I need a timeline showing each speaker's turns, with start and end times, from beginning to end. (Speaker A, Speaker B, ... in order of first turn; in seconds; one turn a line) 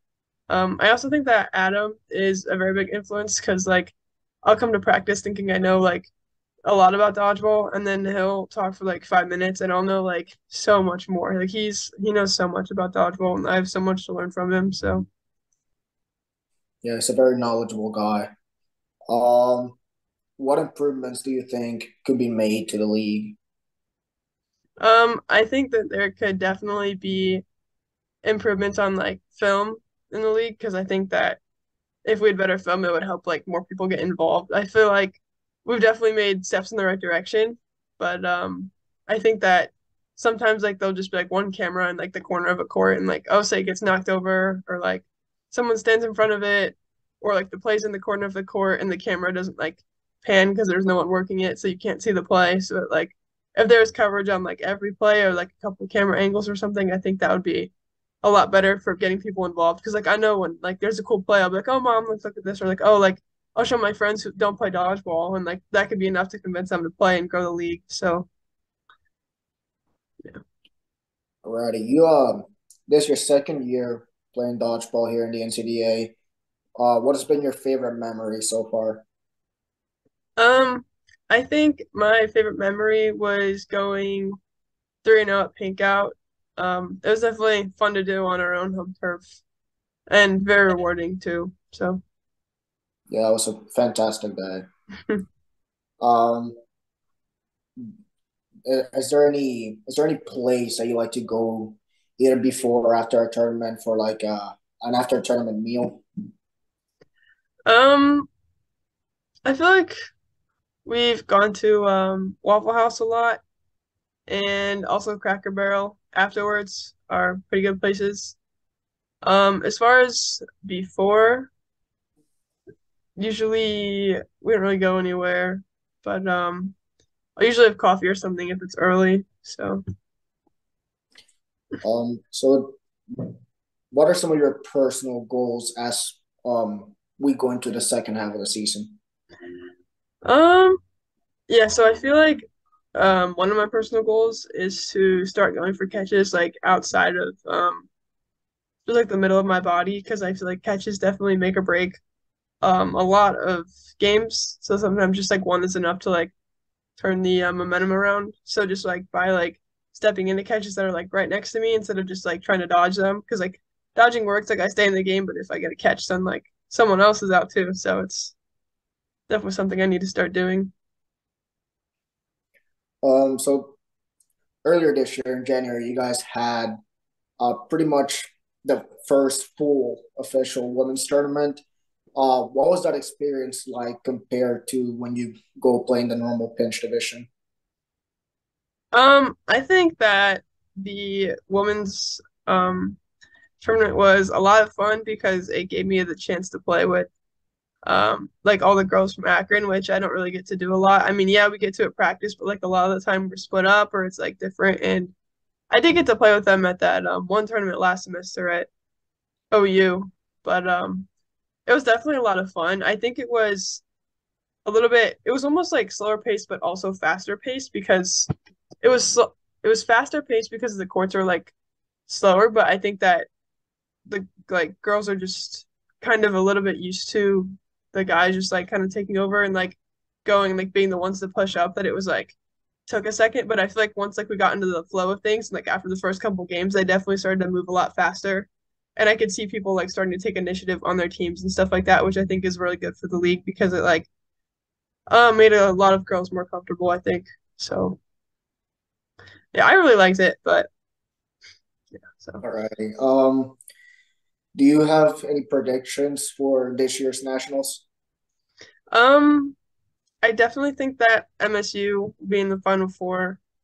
Speaker A: 0.5-6.1
Speaker A: 6.6-15.1
Speaker B: 16.8-18.3
Speaker B: 19.1-19.8
Speaker B: 20.4-23.4
Speaker A: 24.8-27.4
Speaker A: 28.2-31.4
Speaker A: 32.0-57.7
Speaker A: 58.2-68.3
Speaker B: 71.4-76.1
Speaker B: 76.8-79.0
Speaker A: 80.4-84.4
Speaker A: 85.0-89.3
Speaker A: 90.1-92.0
Speaker B: 93.1-94.7
Speaker B: 96.0-96.6
Speaker B: 98.7-106.0
Speaker A: 107.7-108.3
Speaker A: 109.4-109.9
Speaker A: 110.8-113.4
Speaker A: 114.3-118.3
Speaker A: 119.2-121.5
Speaker A: 123.2-126.7
Speaker A: 127.4-129.8
Speaker B: 131.8-133.3
Speaker B: 133.9-138.9
Speaker A: 140.2-140.8
Speaker A: 141.5-147.9
Speaker A: 148.8-152.0
Speaker A: 152.6-156.3
Speaker A: 157.0-168.3
Speaker A: 169.3-170.7
Speaker B: 173.0-173.8
Speaker B: 174.6-176.8
Speaker B: 177.4-181.6
Speaker B: 182.2-187.3
Speaker A: 188.9-193.0
Speaker A: 193.6-197.1
Speaker A: 197.8-205.1
Speaker A: 205.7-208.7
Speaker A: 209.5-211.1
Speaker A: 211.7-213.8
Speaker A: 214.6-218.3
Speaker A: 218.8-221.5
Speaker A: 222.1-223.3
Speaker A: 224.1-232.3
Speaker A: 232.9-244.1
Speaker A: 245.1-248.0
Speaker A: 249.5-250.7
Speaker A: 252.1-252.4
Speaker B: 252.4-253.6
Speaker B: 254.5-257.8
Speaker A: 258.9-259.6
Speaker A: 260.2-263.4